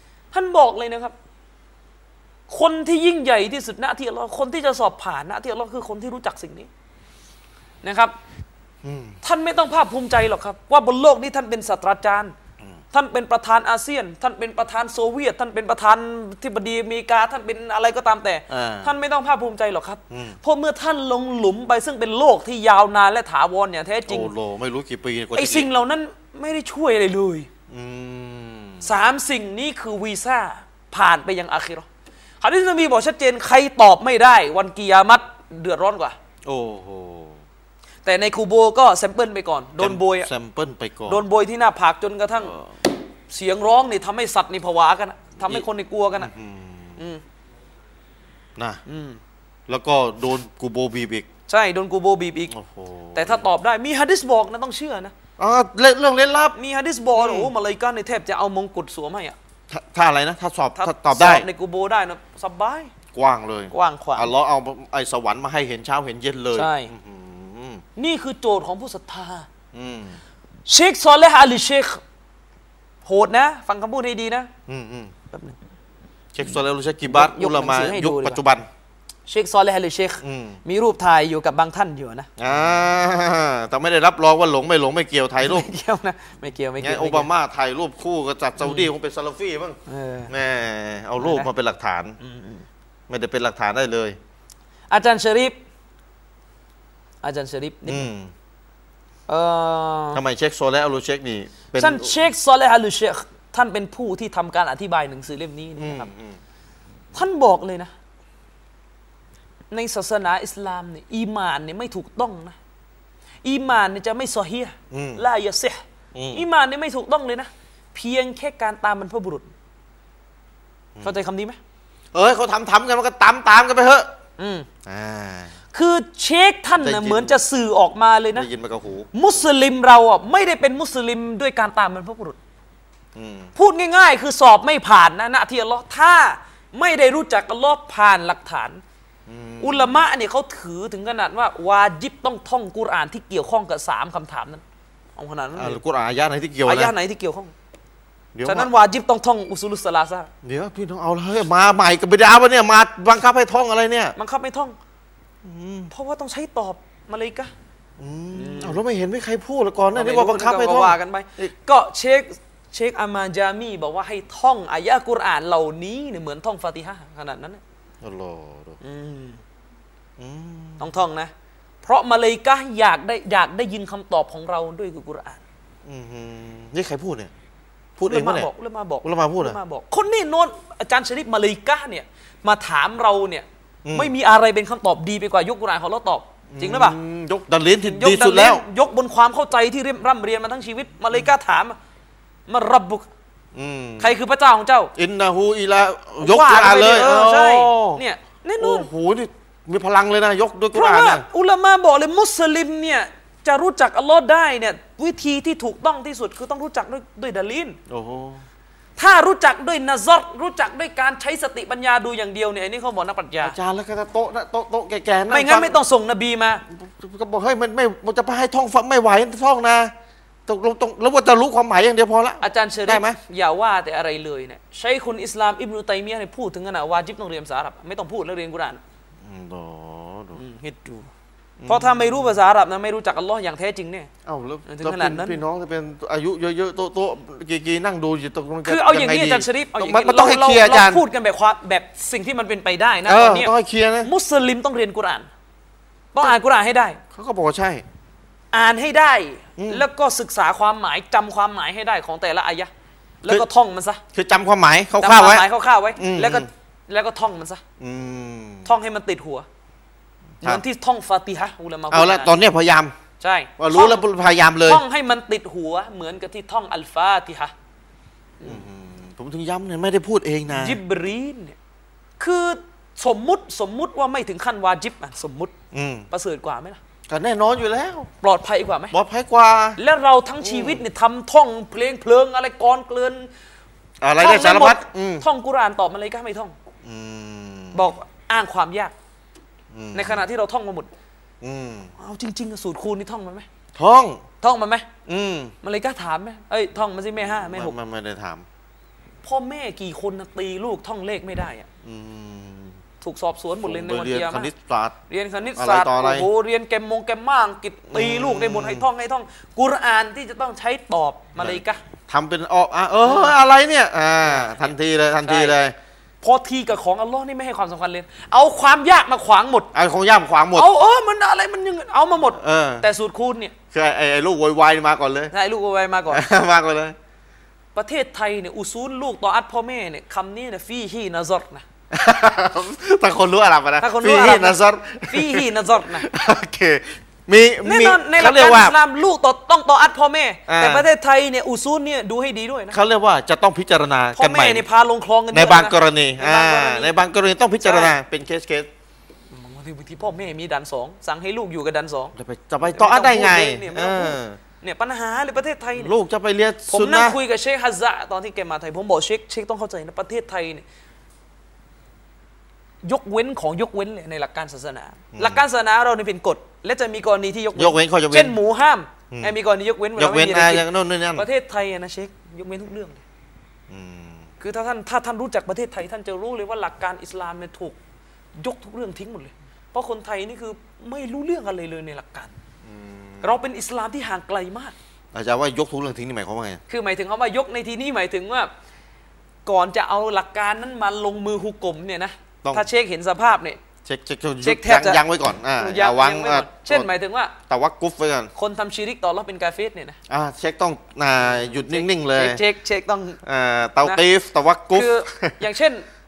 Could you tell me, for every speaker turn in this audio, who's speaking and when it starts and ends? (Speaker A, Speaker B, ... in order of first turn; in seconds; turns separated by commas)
Speaker A: 0.3-1.1, Speaker A: 2.5-6.7, Speaker A: 7.8-8.2, Speaker B: 8.8-9.2, Speaker A: 9.2-12.3, Speaker A: 12.9-24.3, Speaker B: 18.5-18.9, Speaker B: 20.1-20.4, Speaker B: 24.1-25.7, Speaker A: 25.3-27.5, Speaker B: 27.7-28.9, Speaker A: 28.8-31.9, Speaker A: 32.4-36.1, Speaker B: 36.5-37.4, Speaker A: 38.0-40.3, Speaker B: 39.8-41.2, Speaker A: 41.1-42.5, Speaker B: 42.4-42.7, Speaker A: 43.3-46.3, Speaker B: 45.4-47.0, Speaker A: 48.9-49.2, Speaker B: 49.7-51.3, Speaker A: 51.5-52.5, Speaker B: 52.5-53.5, Speaker A: 53.1-55.1, Speaker B: 55.4-56.5, Speaker A: 56.5-59.4, Speaker B: 57.2-57.5, Speaker B: 59.7-61.5, Speaker A: 60.8-62.9, Speaker B: 63.1-67.8, Speaker A: 63.7-64.3, Speaker A: 66.5-66.9, Speaker A: 68.0-69.5, Speaker B: 69.7-70.2, Speaker A: 70.7-72.0, Speaker A: 73.0-74.5, Speaker B: 74.7-75.1, Speaker A: 75.3-75.6, Speaker B: 76.3-78.7, Speaker A: 77.0-78.4, Speaker A: 79.3-82.3, Speaker B: 80.2-80.6, Speaker B: 82.4-85.7, Speaker A: 85.4-87.3, Speaker B: 86.8-89.8, Speaker A: 88.6-88.9, Speaker A: 89.9-90.3, Speaker B: 90.3-92.2, Speaker A: 91.2-91.5, Speaker A: 92.2-92.7, Speaker B: 93.1-94.2, Speaker A: 94.9-95.6, Speaker A: 97.2-98.1, Speaker B: 97.9-98.3, Speaker A: 99.3-100.2, Speaker B: 100.1-102.3, Speaker A: 101.8-106.1, Speaker B: 105.8-106.4, Speaker A: 107.1-107.9, Speaker A: 109.7-112.5, Speaker A: 113.4-115.8, Speaker B: 114.9-115.2, Speaker B: 116.1-116.4, Speaker A: 116.3-119.5, Speaker A: 121.0-121.6, Speaker B: 122.1-124.1, Speaker A: 124.4-124.7, Speaker B: 124.8-125.5, Speaker A: 125.7-128.5, Speaker B: 126.8-127.4, Speaker B: 128.3-129.1, Speaker A: 129.1-132.4, Speaker B: 133.1-133.5, Speaker A: 133.6-138.8, Speaker B: 139.3-140.0, Speaker A: 139.6-144.6, Speaker A: 145.2-145.8, Speaker B: 145.5-146.9, Speaker A: 146.6-147.5, Speaker B: 148.3-148.7, Speaker A: 148.4-150.3, Speaker B: 150.4-154.1, Speaker A: 154.2-154.8, Speaker B: 155.4-155.9, Speaker A: 155.9-157.5, Speaker B: 158.0-161.5, Speaker A: 158.3-158.8, Speaker A: 159.9-167.6, Speaker B: 168.0-168.8, Speaker A: 168.8-169.4, Speaker B: 170.2-170.9, Speaker A: 170.8-171.3, Speaker A: 171.8-175.4, Speaker B: 175.8-177.3, Speaker B: 178.0-178.5, Speaker A: 178.0-187.0, Speaker B: 179.0-179.6, Speaker B: 183.8-184.1, Speaker B: 186.5-188.6, Speaker A: 187.8-191.8, Speaker A: 192.5-193.1, Speaker B: 193.5-194.2, Speaker A: 194.0-194.9, Speaker B: 194.9-198.0, Speaker A: 196.2-198.9, Speaker B: 198.6-201.2, Speaker A: 200.7-207.8, Speaker B: 207.9-208.4, Speaker A: 209.0-213.6, Speaker B: 213.4-215.8, Speaker A: 215.3-216.6, Speaker B: 216.7-219.9, Speaker B: 220.5-223.2, Speaker A: 222.4-228.8, Speaker B: 229.2-230.4, Speaker A: 230.3-231.1, Speaker B: 231.6-232.3, Speaker A: 231.7-234.1, Speaker B: 234.2-241.0, Speaker A: 234.7-235.4, Speaker A: 238.6-243.5, Speaker B: 243.1-244.1, Speaker A: 244.0-245.3, Speaker A: 246.1-247.0, Speaker B: 247.1-247.8, Speaker A: 248.5-252.7, Speaker B: 249.6-249.8, Speaker A: 253.2-254.0, Speaker B: 254.1-256.5, Speaker A: 255.0-257.6, Speaker B: 257.8-258.7, Speaker A: 258.6-259.4, Speaker A: 260.4-262.3, Speaker B: 261.9-262.9, Speaker A: 263.2-264.1, Speaker B: 263.6-264.8, Speaker A: 264.6-267.5, Speaker B: 268.4-270.8, Speaker A: 270.5-271.6, Speaker A: 272.2-275.5, Speaker B: 275.7-276.1, Speaker A: 276.1-276.8, Speaker B: 277.1-278.1, Speaker A: 278.2-278.9, Speaker B: 278.9-279.8, Speaker A: 279.8-283.3, Speaker B: 280.4-280.8, Speaker B: 284.0-285.2, Speaker A: 284.2-286.5, Speaker B: 286.8-287.9, Speaker A: 287.7-288.9, Speaker B: 289.7-290.2, Speaker A: 289.9-290.9, Speaker B: 291.4-291.9, Speaker A: 292.0-293.4, Speaker B: 293.7-294.2, Speaker A: 294.4-294.9, Speaker B: 295.1-295.5, Speaker A: 295.6-297.7, Speaker B: 297.2-298.4, Speaker A: 299.2-301.7, Speaker B: 301.8-302.8, Speaker A: 303.0-304.5, Speaker B: 303.6-306.3, Speaker A: 305.1-311.8, Speaker B: 307.9-308.8, Speaker B: 311.4-315.7, Speaker A: 313.1-313.3, Speaker A: 314.2-315.6, Speaker A: 316.2-319.7, Speaker B: 319.7-320.7, Speaker A: 320.5-323.5, Speaker B: 322.3-322.9, Speaker B: 323.7-325.3, Speaker A: 325.3-326.2, Speaker B: 326.1-326.9, Speaker A: 327.7-331.6, Speaker B: 331.9-338.8, Speaker A: 333.8-336.1, Speaker A: 337.6-342.8, Speaker B: 340.5-340.9, Speaker B: 342.7-344.6, Speaker A: 344.1-346.9, Speaker B: 345.3-348.7, Speaker A: 347.6-347.9, Speaker A: 349.3-355.9, Speaker B: 352.1-354.4, Speaker B: 355.8-357.2, Speaker A: 356.7-360.6, Speaker A: 362.8-373.0, Speaker B: 365.1-365.4, Speaker B: 367.5-368.4, Speaker B: 369.9-371.2, Speaker B: 373.7-374.3, Speaker A: 374.4-377.8, Speaker A: 378.3-382.3, Speaker B: 382.6-383.4, Speaker A: 383.2-384.7, Speaker B: 385.1-386.6, Speaker A: 386.7-388.5, Speaker A: 389.4-393.6, Speaker B: 393.8-396.9, Speaker A: 394.4-395.0, Speaker A: 395.6-397.3, Speaker B: 397.5-398.3, Speaker A: 398.4-399.9, Speaker B: 400.1-402.4, Speaker A: 401.2-403.2, Speaker B: 403.2-405.4, Speaker A: 404.7-405.9